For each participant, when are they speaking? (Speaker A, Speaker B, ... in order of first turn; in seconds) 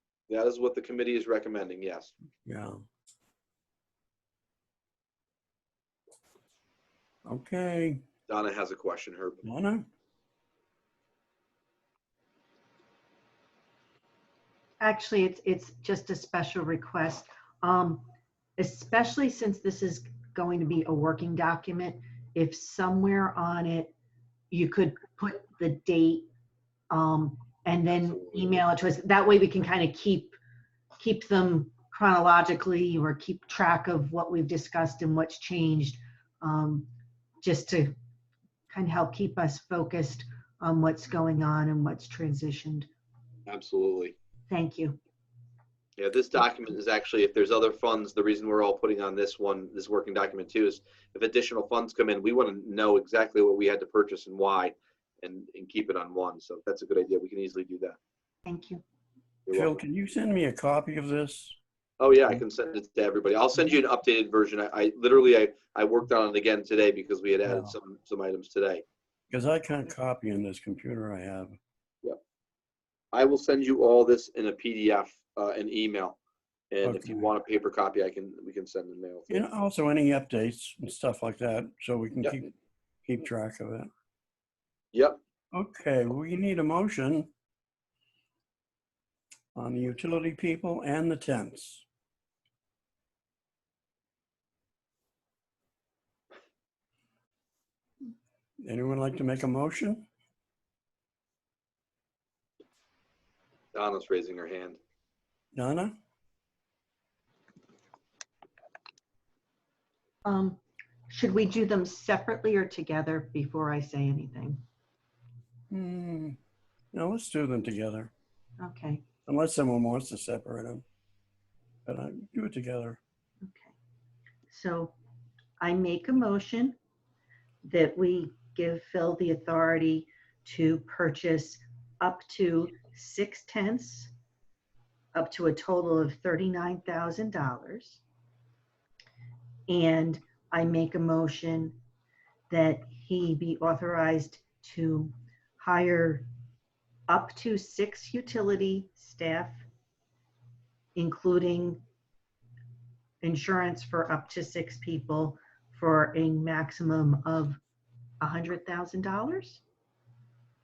Speaker A: 0.3-2.1, 8.3-9.4, 27.9-28.6, 43.5-44.1, 46.0-58.0, 59.5-59.8, 62.0-68.8, 73.1-76.2, 76.7-79.4, 103.7-104.8
Speaker B: 2.5-2.8, 7.2-8.0, 9.4-9.9, 59.5-61.6, 67.5-67.7, 69.3-71.6, 76.8-77.3, 79.3-82.5, 83.0-83.9, 85.5-87.3, 89.5-91.8, 98.6-100.0, 105.5-106.0, 115.7-116.4, 116.9-118.1, 119.2-120.8, 121.8-123.0
Speaker C: 14.8-18.1, 18.6-23.9, 24.5-26.3, 26.9-30.4, 30.9-36.9, 37.4-38.0, 38.7-42.9, 44.5-45.0, 58.5-58.8, 110.2-114.6, 118.6-119.0, 123.4-123.7, 124.5-124.9, 125.6-126.8, 127.6-134.1, 135.1-138.0, 139.7-141.8, 142.5-146.3, 147.1-149.6, 150.9-151.8, 153.2-157.6, 158.2-159.6